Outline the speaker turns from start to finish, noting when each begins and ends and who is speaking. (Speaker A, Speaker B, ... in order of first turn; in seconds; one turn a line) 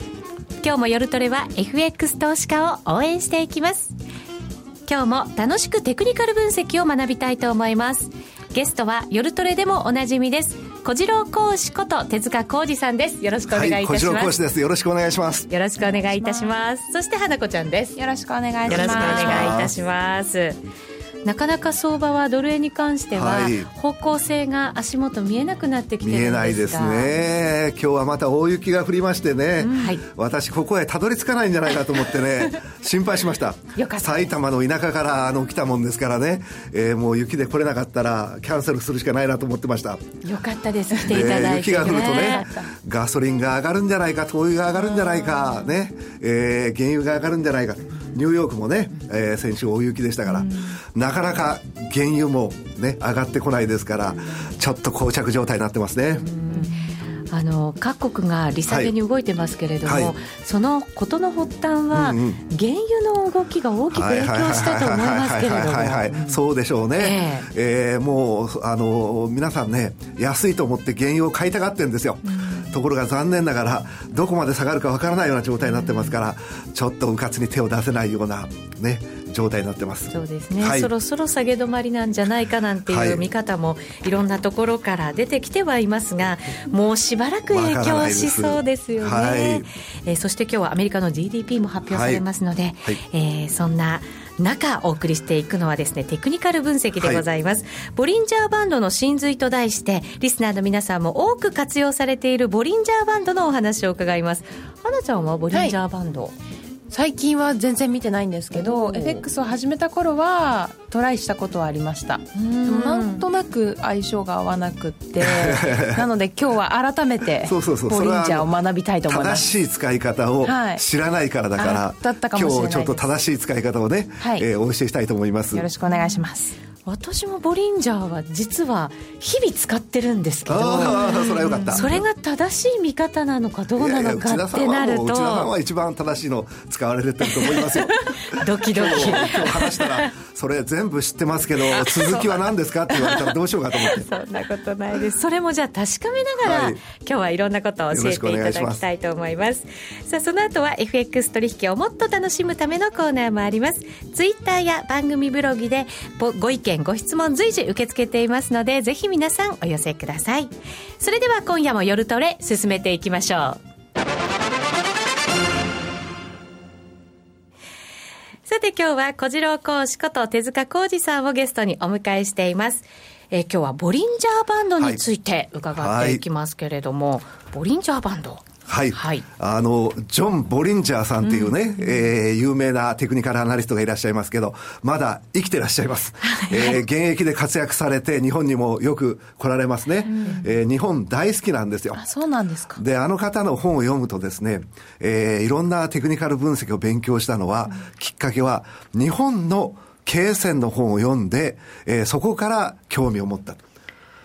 Speaker A: 0.6-3.9
Speaker A: 4.8-14.3
Speaker B: 13.5-15.5
Speaker A: 15.5-17.9
Speaker C: 15.9-16.5
Speaker C: 18.0-19.6
Speaker B: 18.7-19.7
Speaker A: 18.7-20.6
Speaker A: 21.2-27.2
Speaker B: 23.1-23.7
Speaker B: 26.0-40.1
Speaker A: 29.6-30.0
Speaker A: 33.8-34.3
Speaker A: 40.2-42.6
Speaker B: 41.0-56.3
Speaker A: 56.3-56.7
Speaker A: 57.3-66.4
Speaker B: 58.7-58.9
Speaker B: 59.8-60.1
Speaker B: 61.9-62.4
Speaker B: 63.9-80.9
Speaker A: 67.0-67.5
Speaker A: 80.1-106.3
Speaker B: 82.9-83.3
Speaker B: 87.5-89.7
Speaker B: 91.9-92.2
Speaker B: 97.0-97.2
Speaker C: 106.9-119.5
Speaker A: 108.5-109.2
Speaker A: 112.7-113.2
Speaker B: 115.2-116.0
Speaker B: 117.4-118.5
Speaker B: 119.1-125.7
Speaker C: 120.4-120.8
Speaker C: 121.6-123.0
Speaker C: 125.5-126.5
Speaker A: 126.8-135.5
Speaker B: 130.4-131.9
Speaker C: 130.9-131.8
Speaker B: 133.8-144.1
Speaker A: 137.4-137.7
Speaker A: 138.3-140.1
Speaker A: 141.7-142.3
Speaker A: 142.9-143.2
Speaker A: 143.7-163.6
Speaker B: 146.4-146.8
Speaker B: 147.9-148.8
Speaker A: 168.4-179.2
Speaker B: 175.7-176.2
Speaker B: 178.7-192.0
Speaker A: 181.2-181.5
Speaker A: 186.2-186.8
Speaker C: 190.1-190.4
Speaker C: 191.9-192.8
Speaker B: 192.7-203.6